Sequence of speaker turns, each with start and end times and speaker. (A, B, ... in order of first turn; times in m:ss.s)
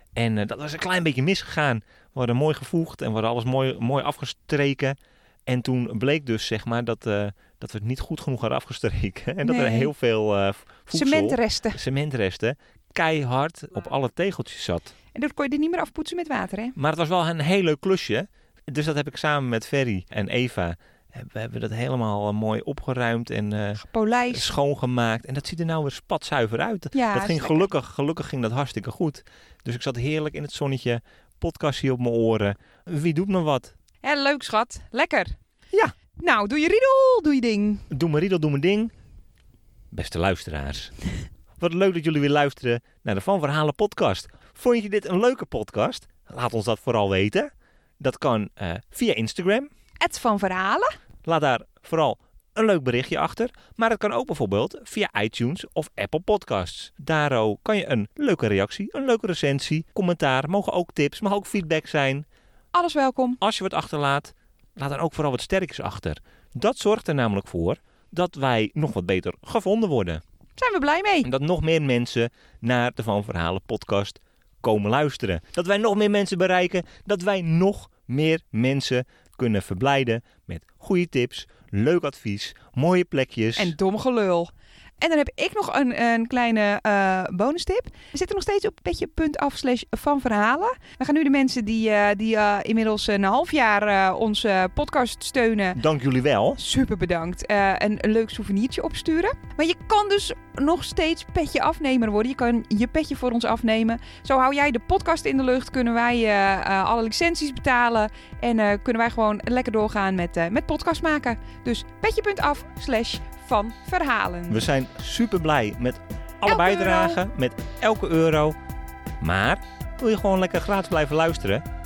0:00.2-0:14.9 A
0:09.4-0:09.9 B
0:10.9-0:11.8 B
0:15.1-0:16.8 B
0:16.8-0:33.7 A
0:23.8-0:24.5 B
0:26.9-0:27.7 B
0:34.0-0:35.4 B
0:36.2-0:37.9 B
0:37.9-0:38.9 A
0:39.9-0:40.9 A
0:41.6-0:49.7 A
0:50.0-0:50.9 B
0:51.2-1:02.2 A
1:02.7-1:03.4 B
1:03.4-1:10.2 A
1:10.6-1:11.3 B
1:11.2-1:23.7 A
1:23.6-1:35.8 B
1:35.8-1:36.6 A
1:36.6-1:54.6 B
1:54.5-1:58.6 A
1:56.4-1:57.2 B
1:59.2-2:01.6 A